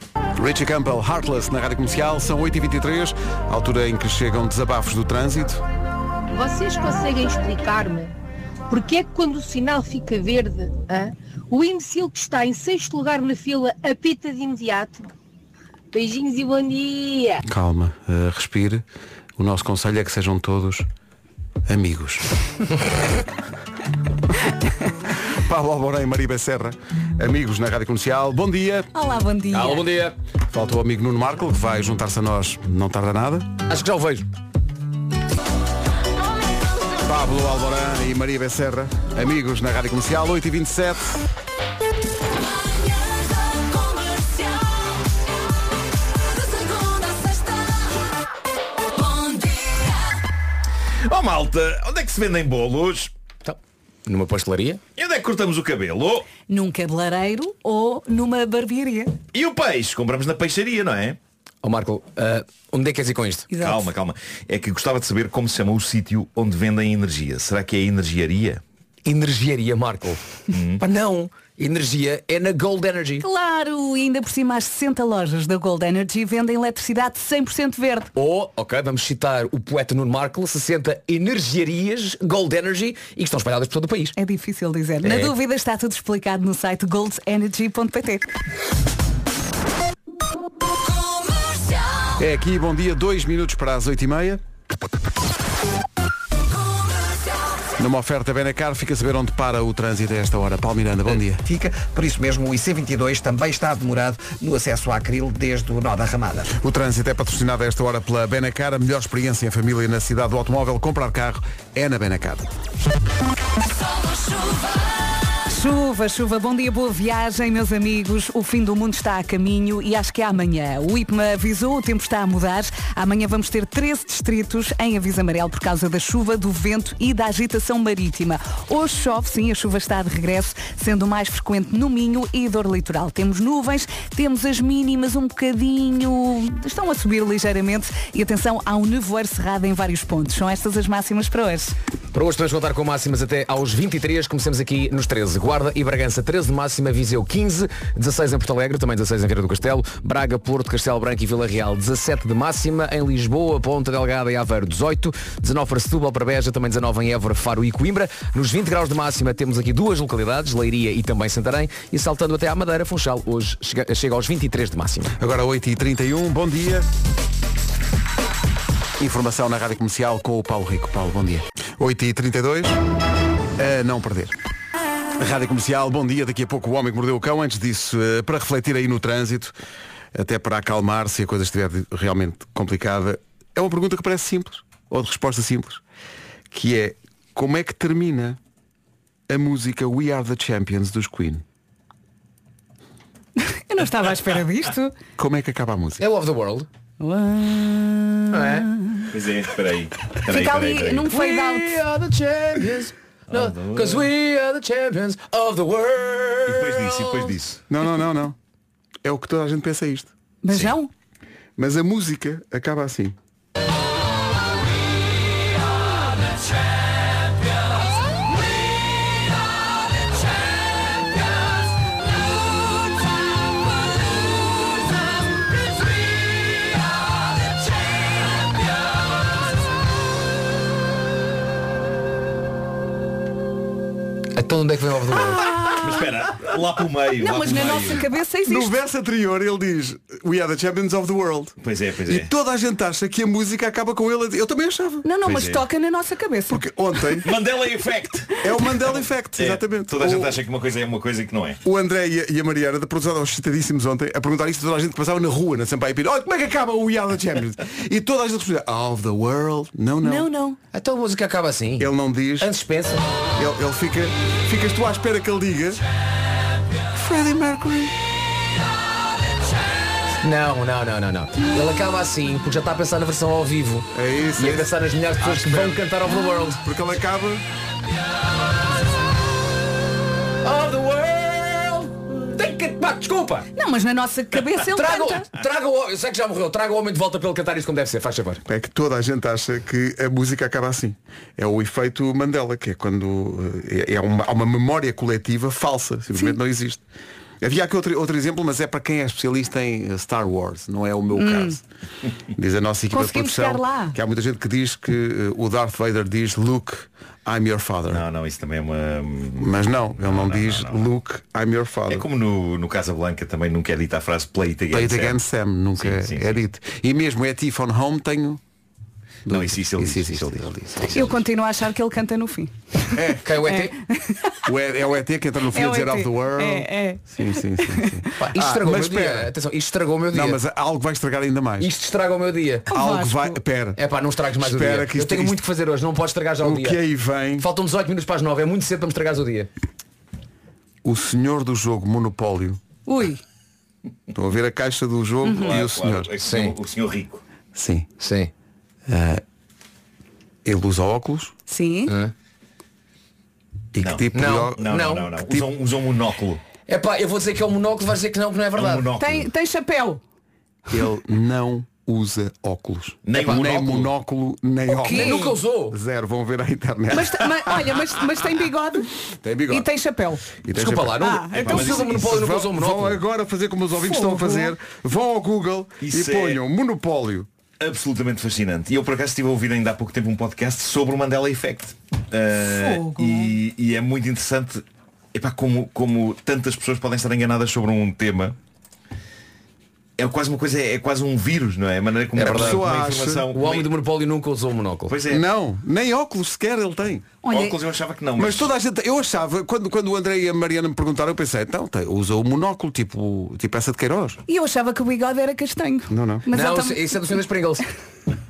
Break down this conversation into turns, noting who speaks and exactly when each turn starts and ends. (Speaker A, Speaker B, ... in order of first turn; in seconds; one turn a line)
Speaker A: 0.3-5.6
Speaker B: 6.3-8.1
Speaker B: 8.7-15.1
Speaker B: 15.9-17.4
Speaker A: 17.4-18.8
Speaker A: 19.4-20.9
Speaker A: 21.7-22.3
Speaker A: 25.1-28.9
Speaker C: 28.9-29.8
Speaker D: 29.5-30.1
Speaker A: 30.5-33.5
Speaker D: 33.7-34.2
Speaker A: 37.0-41.2
Speaker E: 51.0-53.1
Speaker D: 53.4-54.8
Speaker E: 55.0-56.3
Speaker C: 56.5-59.1
Speaker E: 59.3-61.2
Speaker D: 61.6-63.5
Speaker C: 63.5-63.8
Speaker E: 63.5-68.6
Speaker D: 69.0-70.2
Speaker E: 70.5-70.8
Speaker D: 70.8-73.2
Speaker C: 73.2-78.1
Speaker D: 78.2-84.1
Speaker C: 84.2-88.3
Speaker D: 85.0-85.3
Speaker A: 92.2-94.4
Speaker A: 97.8-101.4
Speaker F: 101.4-106.5
Speaker A: 106.5-112.5
Speaker C: 115.4-141.7
Speaker D: 142.1-165.1
Speaker A: 165.2-166.9
Speaker A: 169.0-172.8
Speaker A: 173.6-174.3
Speaker A: 175.2-179.5
Speaker A: 180.1-185.8
Speaker A: 186.5-188.4
Speaker A: 189.3-191.4
Speaker C: 193.4-194.9
Speaker A: 195.2-196.0
Speaker D: 196.0-196.7
Speaker C: 197.0-199.1
Speaker D: 198.3-198.7
Speaker E: 199.1-201.1
Speaker C: 200.2-201.8
Speaker D: 201.1-207.4
Speaker E: 203.3-204.1
Speaker E: 206.4-207.6
Speaker A: 207.7-208.4
Speaker A: 209.0-210.1
Speaker C: 210.4-210.9
Speaker A: 211.6-213.2
Speaker D: 234.3-235.7
Speaker C: 235.3-236.0
Speaker E: 235.8-238.1
Speaker C: 237.2-238.7
Speaker A: 238.4-245.1
Speaker E: 241.6-242.3
Speaker C: 245.0-246.6
Speaker E: 245.2-245.6
Speaker A: 246.5-247.3
Speaker E: 247.2-251.6
Speaker A: 248.4-250.4
Speaker A: 251.6-260.3
Speaker C: 260.0-260.6
Speaker D: 260.7-263.0
Speaker A: 261.8-262.5
Speaker A: 263.4-265.8
Speaker A: 266.9-267.9
Speaker D: 270.2-276.6
Speaker A: 273.9-275.9
Speaker A: 276.5-277.4
Speaker D: 280.4-283.5
Speaker C: 283.6-285.3
Speaker D: 284.6-288.4
Speaker A: 288.4-296.8
Speaker A: 297.4-301.6
Speaker C: 301.1-301.6
Speaker A: 302.3-308.0
Speaker C: 302.9-303.9
Speaker E: 307.9-310.8
Speaker A: 309.4-312.1
Speaker E: 311.9-315.2
Speaker A: 314.7-318.4
Speaker E: 315.8-316.4
Speaker A: 319.2-321.0
Speaker E: 319.3-321.1
Speaker C: 320.9-324.4
Speaker A: 322.9-323.3
Speaker D: 323.2-323.7
Speaker A: 324.4-329.3
Speaker C: 325.5-327.1
Speaker C: 327.6-327.9
Speaker D: 328.2-330.4
Speaker A: 330.1-331.7
Speaker D: 331.6-332.6
Speaker A: 332.7-333.8
Speaker C: 332.7-333.4
Speaker D: 333.8-336.8
Speaker A: 334.4-335.4
Speaker A: 336.4-337.5
Speaker D: 337.4-339.5
Speaker A: 340.8-342.6
Speaker C: 342.9-343.2
Speaker A: 344.1-346.1
Speaker C: 345.2-345.5
Speaker E: 345.3-347.2
Speaker D: 346.2-346.5
Speaker A: 347.5-347.9
Speaker D: 348.0-348.3
Speaker A: 348.9-349.2
Speaker A: 350.4-351.3
Speaker C: 351.5-351.9
Speaker D: 351.9-352.1
Speaker A: 353.7-354.6
Speaker E: 353.8-356.4
Speaker D: 354.1-355.1
Speaker D: 356.7-358.9
Speaker E: 358.5-359.3
Speaker C: 359.0-360.0
Speaker A: 360.7-367.3
Speaker E: 363.0-363.9
Speaker D: 363.1-363.6
Speaker C: 364.7-365.3
Speaker D: 364.8-365.8
Speaker C: 366.9-368.9
Speaker A: 369.2-369.7
Speaker C: 369.5-370.2
Speaker A: 370.4-377.3
Speaker D: 370.5-373.0
Speaker C: 371.0-371.9
Speaker E: 371.4-372.1
Speaker C: 373.8-374.5
Speaker E: 375.8-376.4
Speaker E: 377.6-388.4
Speaker C: 382.4-383.3
Speaker E: 390.0-393.7
Speaker D: 392.1-392.6
Speaker A: 392.2-393.3
Speaker D: 393.3-394.9
Speaker E: 394.9-395.2
Speaker A: 395.1-397.1
Speaker C: 397.2-397.5
Speaker E: 397.3-398.5
Speaker A: 398.1-404.2
Speaker C: 404.3-406.8
Speaker A: 405.9-406.3
Speaker D: 406.3-407.6